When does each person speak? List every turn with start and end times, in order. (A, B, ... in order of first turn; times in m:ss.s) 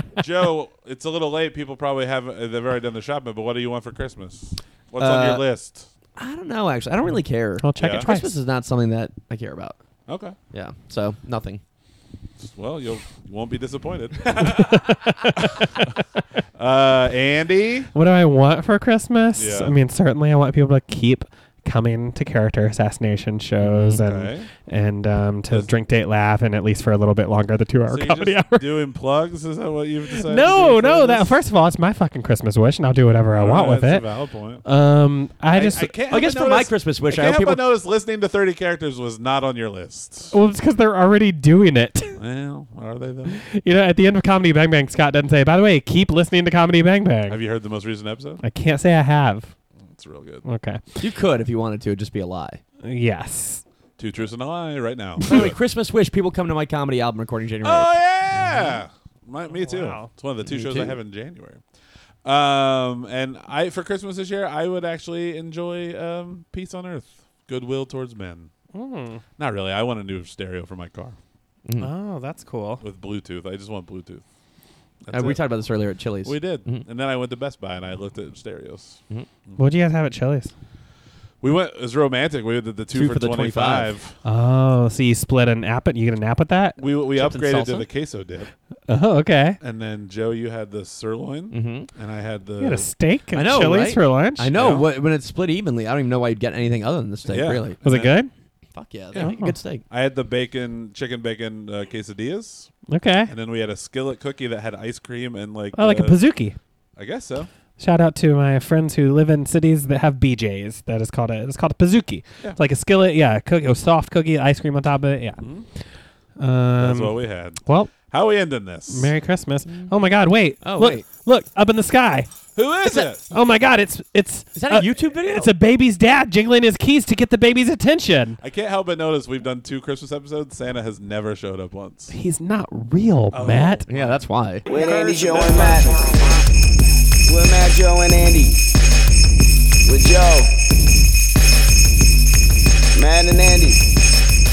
0:00.2-0:05.9 A
0:05.0-0:05.4 B
0:06.2-0:09.8 B
0:07.6-0:08.4 C
0:07.8-0:08.1 A
0:10.1-0:10.4 A
0:10.5-0:11.6 B
0:12.4-0:14.8 A
0:14.3-0:16.0 C
0:15.4-0:15.7 A
0:16.6-0:17.9 A
0:17.9-0:28.7 C
0:19.4-0:19.7 A
0:23.6-0:24.5 A
0:27.9-0:31.4 A
0:30.1-0:34.0 C
0:33.4-0:34.6 A
0:34.6-0:35.9 C
0:35.5-0:40.3 A
0:36.1-0:37.6 B
0:40.3-0:42.2 C
0:42.2-0:43.4 A
0:43.4-0:47.4 C
0:47.3-0:48.4 A
0:48.4-0:49.5 C
0:49.9-0:50.4 A
0:50.4-0:50.8 C
0:51.0-0:52.6 B
0:52.8-0:53.6 C
0:54.0-0:55.6 A
0:55.2-0:57.9 B
0:57.6-1:01.6 A
0:59.6-1:00.1 C
1:00.5-1:01.0 B
1:02.2-1:08.5 A
1:08.7-1:09.2 C
1:09.4-1:11.2 A
1:11.6-1:11.9 B
1:11.8-1:12.8 C
1:12.8-1:14.2 A
1:15.0-1:15.5 A
1:15.1-1:16.8 B
1:16.2-1:19.6 A
1:19.6-1:20.5 C
1:21.4-1:24.1 A
1:22.9-1:23.9 B
1:24.2-1:26.8 C
1:26.8-1:28.5 A
1:27.2-1:27.9 B
1:28.9-1:29.6 C
1:29.6-1:32.9 A
1:31.5-1:31.9 B
1:32.6-1:34.5 C
1:33.3-1:37.8 B
1:34.5-1:34.9 A
1:37.3-1:38.1 A
1:37.8-1:38.3 C
1:38.7-1:39.8 B
1:39.2-1:39.5 C
1:39.9-1:42.7 A
1:42.9-1:43.3 C
1:43.3-1:46.2 A
1:45.7-1:46.6 C
1:47.0-1:47.5 A
1:47.8-1:55.4 C
1:55.4-1:55.7 A
1:56.4-1:57.9 C
1:56.8-1:59.1 A
1:58.9-2:02.3 C
2:00.6-2:01.0 B
2:02.6-2:03.3 A
2:03.3-2:08.4 C
2:04.6-2:05.5 B
2:08.4-2:12.1 A
2:12.1-2:13.8 C
2:13.3-2:14.2 A
2:13.9-2:15.8 B
2:14.7-2:16.4 D
2:15.2-2:15.8 A
2:17.2-2:18.6 D
2:19.8-2:20.6 D
2:22.9-2:24.0 D